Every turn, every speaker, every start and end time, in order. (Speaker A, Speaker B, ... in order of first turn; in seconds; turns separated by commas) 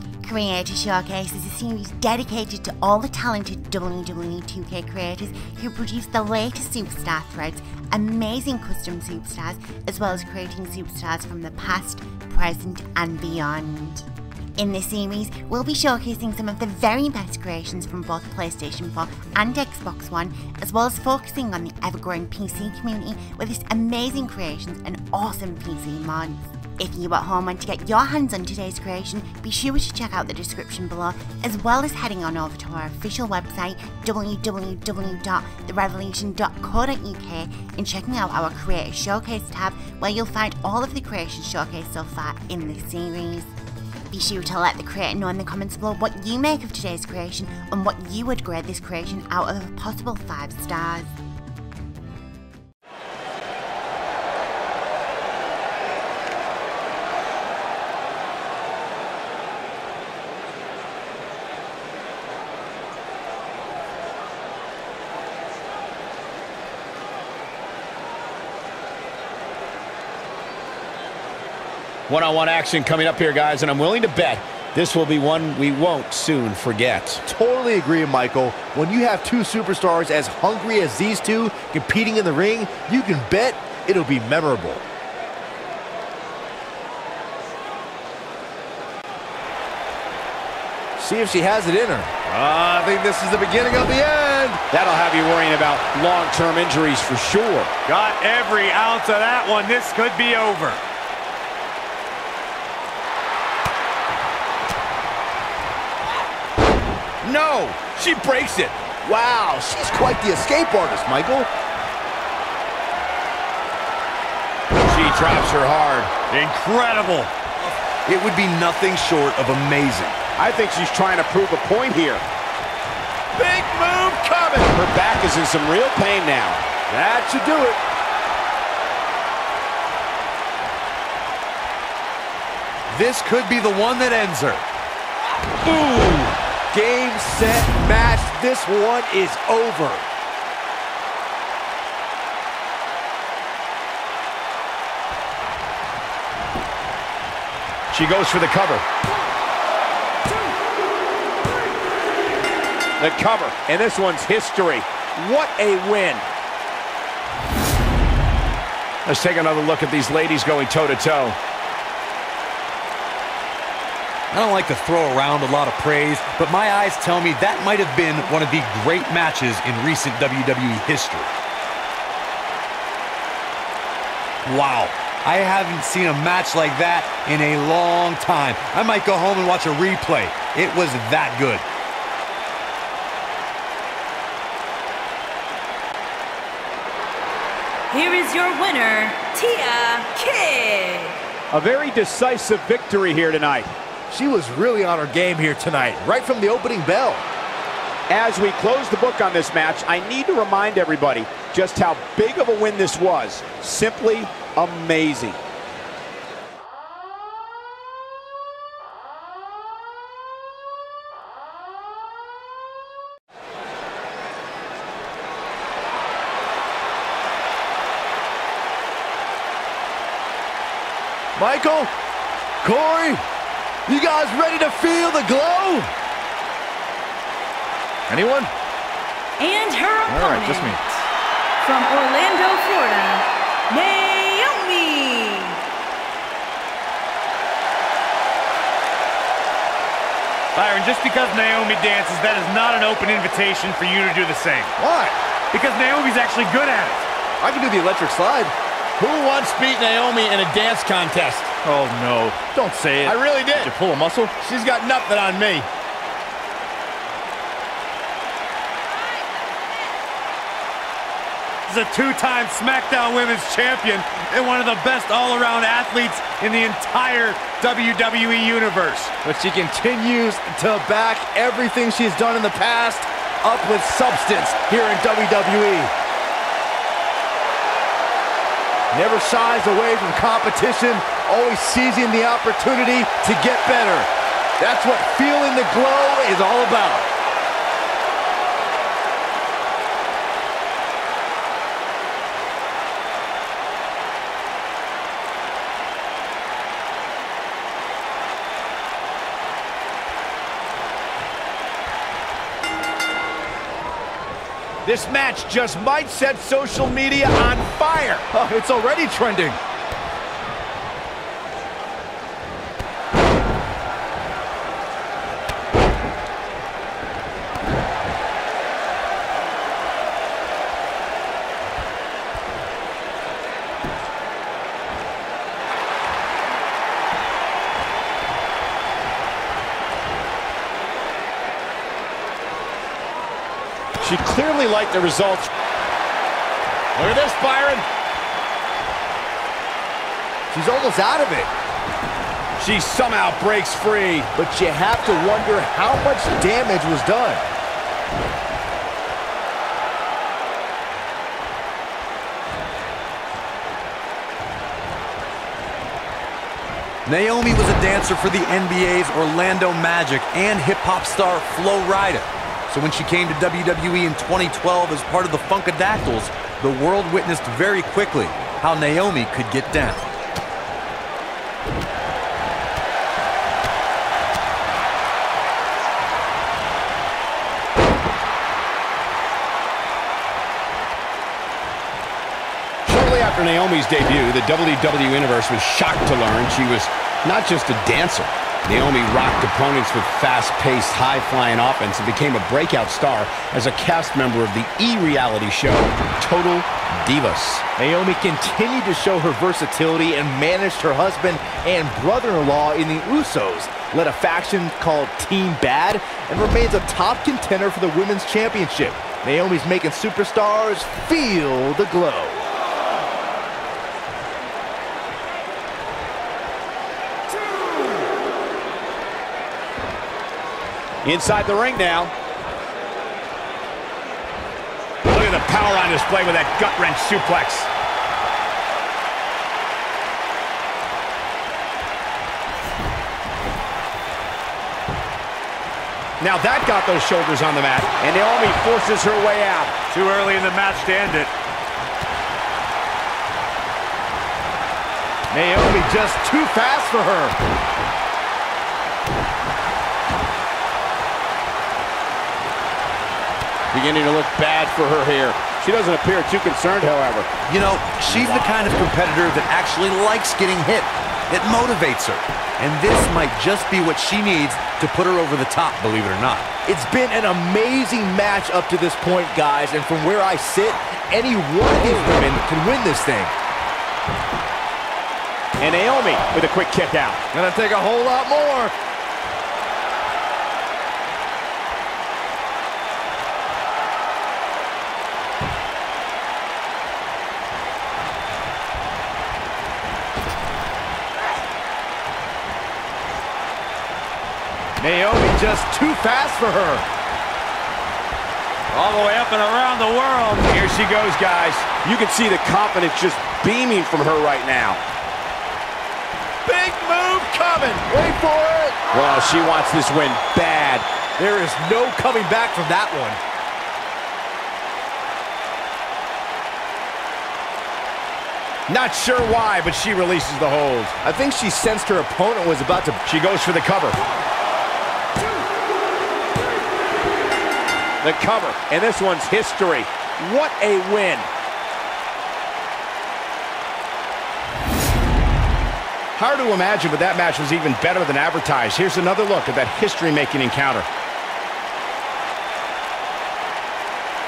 Speaker A: 0.2-43.5, Speaker A: 44.1-51.1, Speaker B: 72.1-77.2, Speaker C: 77.2-84.8, Speaker C: 91.0-94.6, Speaker B: 94.7-97.8, Speaker D: 97.8-100.8, Speaker B: 107.2-108.8, Speaker C: 109.0-111.5, Speaker B: 114.8-116.1, Speaker E: 116.3-120.2, Speaker B: 120.4-122.2, Speaker B: 123.4-126.6, Speaker C: 126.9-127.8, Speaker E: 132.9-134.6, Speaker C: 135.7-140.1, Speaker B: 147.9-148.8, Speaker B: 153.0-156.2, Speaker B: 159.0-161.4, Speaker E: 164.3-171.3, Speaker E: 174.4-181.6, Speaker F: 187.9-191.2, Speaker B: 191.5-193.7, Speaker C: 194.1-197.2, Speaker B: 198.1-205.4, Speaker C: 221.3-221.9, Speaker C: 222.6-223.2, Speaker C: 223.9-225.9, Speaker C: 228.1-228.5, Speaker F: 229.4-230.8, Speaker C: 230.1-230.8, Speaker F: 231.6-235.6, Speaker D: 240.6-244.7, Speaker C: 244.8-245.2, Speaker D: 245.5-247.1, Speaker C: 247.4-248.5, Speaker B: 249.0-251.5, Speaker C: 251.6-254.3, Speaker B: 253.0-253.7, Speaker B: 254.4-255.7, Speaker D: 261.7-269.1, Speaker C: 269.2-275.9, Speaker C: 278.9-287.1, Speaker B: 304.8-308.2, Speaker C: 308.3-309.6, Speaker B: 334.0-335.5, Speaker B: 336.9-337.9, Speaker C: 340.5-341.5, Speaker B: 342.6-344.3, Speaker C: 344.3-347.4, Speaker E: 357.1-370.1, Speaker B: 382.9-397.6, Speaker C: 397.8-412.4, Speaker B: 421.0-422.1, Speaker B: 425.1-427.7, Speaker B: 436.2-439.8, Speaker D: 439.9-441.3, Speaker C: 445.3-447.3, Speaker B: 453.7-457.3, Speaker E: 457.4-466.5, Speaker C: 466.6-473.3, Speaker B: 475.6-477.2, Speaker C: 477.3-478.7, Speaker C: 494.8-496.8, Speaker B: 498.7-504.8, Speaker D: 498.7-500.4, Speaker B: 506.4-507.8, Speaker C: 507.8-508.8, Speaker B: 508.9-510.9, Speaker C: 511.2-513.2, Speaker B: 518.7-520.9, Speaker C: 521.0-523.0, Speaker B: 523.0-524.0, Speaker B: 528.0-531.3, Speaker B: 536.1-540.9